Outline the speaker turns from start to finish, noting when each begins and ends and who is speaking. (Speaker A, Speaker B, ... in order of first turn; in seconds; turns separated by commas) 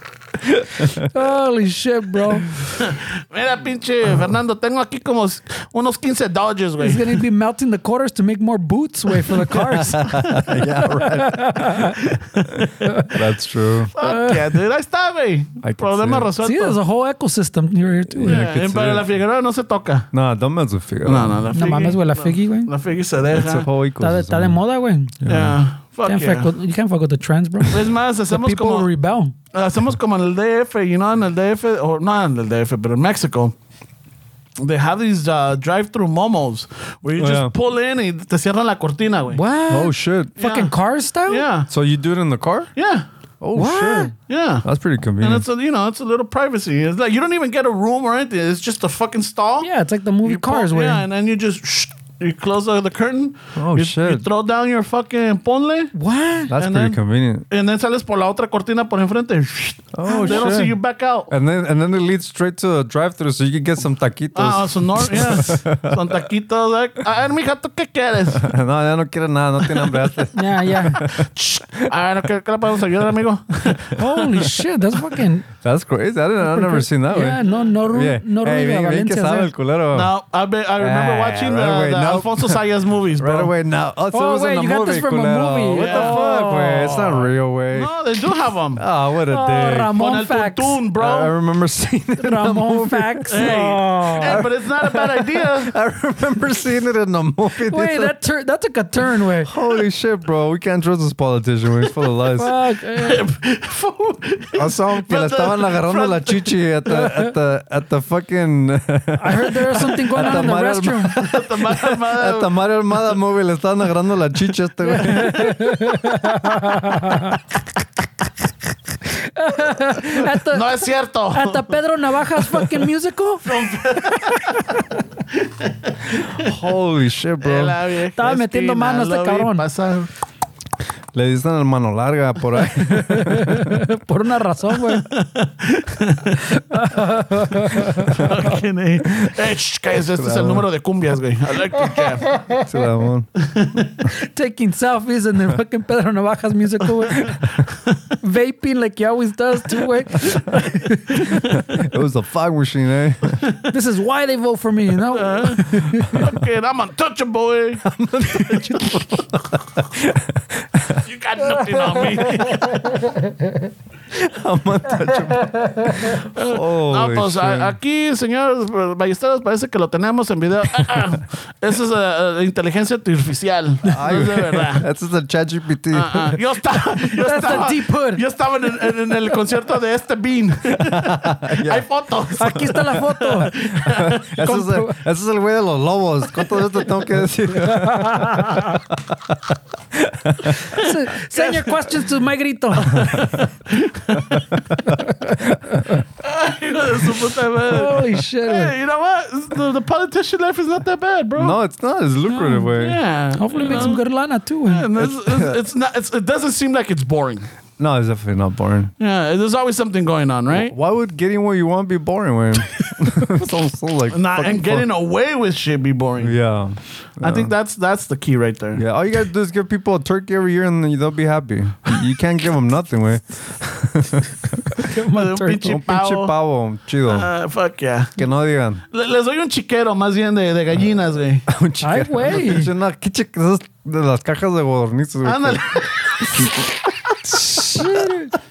Speaker A: 0.4-1.1, Speaker B: 1.0-2.5, Speaker C: 2.7-7.2, Speaker B: 6.8-12.0, Speaker A: 9.6-11.9, Speaker C: 12.0-12.7, Speaker B: 12.8-13.2, Speaker A: 13.1-13.9, Speaker C: 13.9-16.8, Speaker B: 14.0-14.6, Speaker A: 15.6-16.3, Speaker B: 16.4-18.4, Speaker A: 18.1-19.1, Speaker C: 18.2-20.1, Speaker A: 20.1-21.4, Speaker C: 21.0-23.7, Speaker B: 21.5-22.7, Speaker A: 23.3-24.6, Speaker B: 24.0-25.2, Speaker A: 25.2-25.6, Speaker C: 25.3-26.5, Speaker B: 26.1-29.3, Speaker C: 27.7-28.9, Speaker C: 29.5-33.5, Speaker C: 34.6-39.4, Speaker A: 37.2-37.5, Speaker B: 39.3-41.4, Speaker A: 39.7-40.4, Speaker C: 40.4-40.7, Speaker C: 41.3-41.7, Speaker A: 41.7-42.7, Speaker C: 42.8-43.0, Speaker A: 43.4-44.1, Speaker B: 43.5-44.1, Speaker C: 44.3-44.6, Speaker A: 44.6-45.4, Speaker C: 45.2-49.7, Speaker B: 49.6-51.0, Speaker C: 50.2-55.9, Speaker A: 53.5-54.3, Speaker B: 55.9-56.5, Speaker A: 56.5-57.5, Speaker C: 56.5-61.3, Speaker A: 59.9-60.8, Speaker B: 60.0-60.7, Speaker A: 61.3-66.2, Speaker C: 64.3-68.5, Speaker A: 68.3-71.9, Speaker C: 69.6-70.1, Speaker B: 70.3-71.0, Speaker C: 71.0-74.0, Speaker A: 73.0-74.5, Speaker B: 74.0-75.5, Speaker A: 75.6-80.1, Speaker B: 76.4-79.5, Speaker C: 77.4-77.7, Speaker C: 79.9-83.5, Speaker A: 80.8-82.6, Speaker A: 83.2-87.9, Speaker B: 84.1-86.9, Speaker C: 85.7-88.8, Speaker A: 88.8-89.9, Speaker B: 89.3-90.8, Speaker C: 89.9-91.3, Speaker A: 91.0-93.6, Speaker B: 92.2-94.4, Speaker C: 93.3-95.7, Speaker A: 94.2-98.2, Speaker B: 97.7-99.5, Speaker A: 99.4-102.5, Speaker B: 102.3-103.2, Speaker C: 103.0-106.5, Speaker A: 104.5-116.3, Speaker B: 107.0-107.3, Speaker B: 109.2-111.3, Speaker C: 111.0-112.5, Speaker B: 114.8-117.4, Speaker B: 119.0-123.4, Speaker C: 120.2-121.8, Speaker C: 123.4-126.5, Speaker B: 124.0-124.8, Speaker A: 126.3-127.8, Speaker C: 127.4-130.1, Speaker B: 128.2-129.6, Speaker A: 131.1-133.8, Speaker B: 132.8-135.1, Speaker C: 134.9-136.4, Speaker B: 136.4-138.4, Speaker C: 138.0-142.3, Speaker A: 140.0-140.7, Speaker B: 142.0-142.7, Speaker A: 142.6-143.3, Speaker C: 143.4-143.9, Speaker B: 144.1-147.4, Speaker C: 147.2-148.0, Speaker B: 148.2-151.8, Speaker A: 151.5-153.4, Speaker B: 153.7-156.3, Speaker C: 155.1-159.2, Speaker A: 156.0-156.3, Speaker A: 157.8-161.1, Speaker C: 161.0-162.9, Speaker B: 161.6-163.7, Speaker A: 164.1-167.8, Speaker B: 165.1-166.1, Speaker C: 166.0-174.8, Speaker A: 173.9-176.4, Speaker C: 175.9-184.3, Speaker B: 177.1-178.2, Speaker A: 180.8-181.8, Speaker B: 182.3-183.5, Speaker A: 183.8-190.8, Speaker B: 184.4-185.0, Speaker B: 187.5-188.8, Speaker B: 190.7-193.2, Speaker C: 190.8-192.0, Speaker C: 192.8-194.5, Speaker A: 194.1-195.5, Speaker B: 194.8-196.0, Speaker C: 196.2-201.6, Speaker B: 197.7-198.7, Speaker A: 201.3-203.0, Speaker B: 202.3-202.8, Speaker C: 202.8-204.0, Speaker B: 203.3-204.8, Speaker C: 204.7-207.5, Speaker A: 204.9-205.6, Speaker A: 207.8-208.9, Speaker C: 209.0-210.7, Speaker A: 210.5-214.8, Speaker C: 214.1-216.4, Speaker A: 216.2-217.5, Speaker C: 217.2-218.8, Speaker A: 218.7-224.8, Speaker B: 224.8-225.8, Speaker C: 225.1-226.3, Speaker A: 225.6-227.3, Speaker C: 227.1-228.1, Speaker A: 228.2-228.8, Speaker C: 228.9-231.5, Speaker A: 231.5-236.7, Speaker B: 231.8-232.7, Speaker C: 235.2-237.2, Speaker A: 237.3-238.1, Speaker B: 237.3-238.3